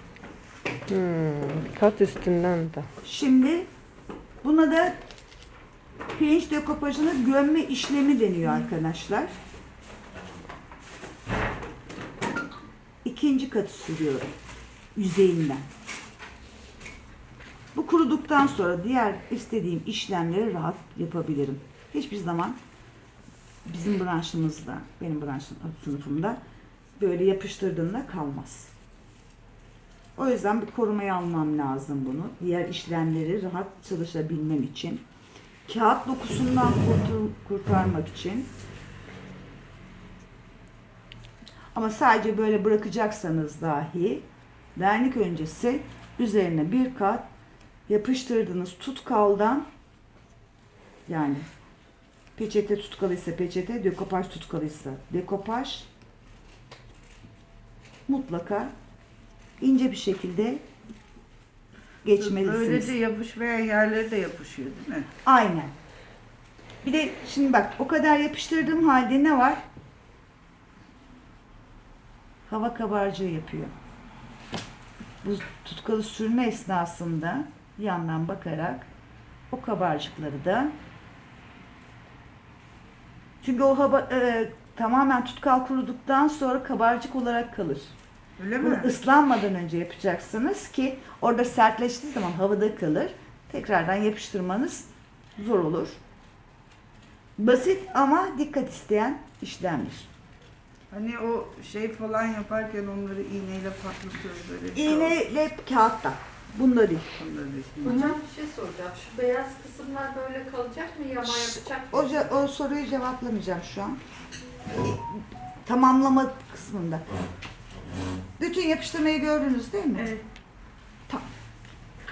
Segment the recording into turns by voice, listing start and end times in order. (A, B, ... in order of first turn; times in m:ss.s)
0:00.9-0:02.9 A
0:03.0-0:03.7 B
0:04.4-0:05.0 B
0:06.1-0:09.4 B
0:13.0-0:14.3 B
0:14.9-0:15.6 B
0:17.7-0:22.6 B
0:23.6-0:26.4 B
0:27.0-0:28.7 B
0:30.2-0:35.0 B
0:35.6-0:38.5 B
0:41.7-0:47.3 B
0:47.9-0:49.7 B
0:51.1-0:51.5 B
0:52.4-0:55.9 B
0:58.1-0:58.7 B
0:59.6-1:00.6 B
1:02.0-1:02.9 B
1:02.2-1:05.1 C
1:05.2-1:05.7 B
1:06.8-1:09.6 B
1:12.4-1:13.7 B
1:15.2-1:18.9 B
1:19.5-1:20.7 B
1:23.4-1:27.9 B
1:28.4-1:28.9 C
1:28.6-1:36.0 B
1:37.4-1:40.1 B
1:40.9-1:45.2 C
1:44.7-1:47.1 B
1:47.1-1:48.0 C
1:47.8-1:52.1 D
1:47.8-1:48.2 B
1:51.2-1:54.0 B
1:55.1-1:57.0 B
1:58.4-2:00.2 B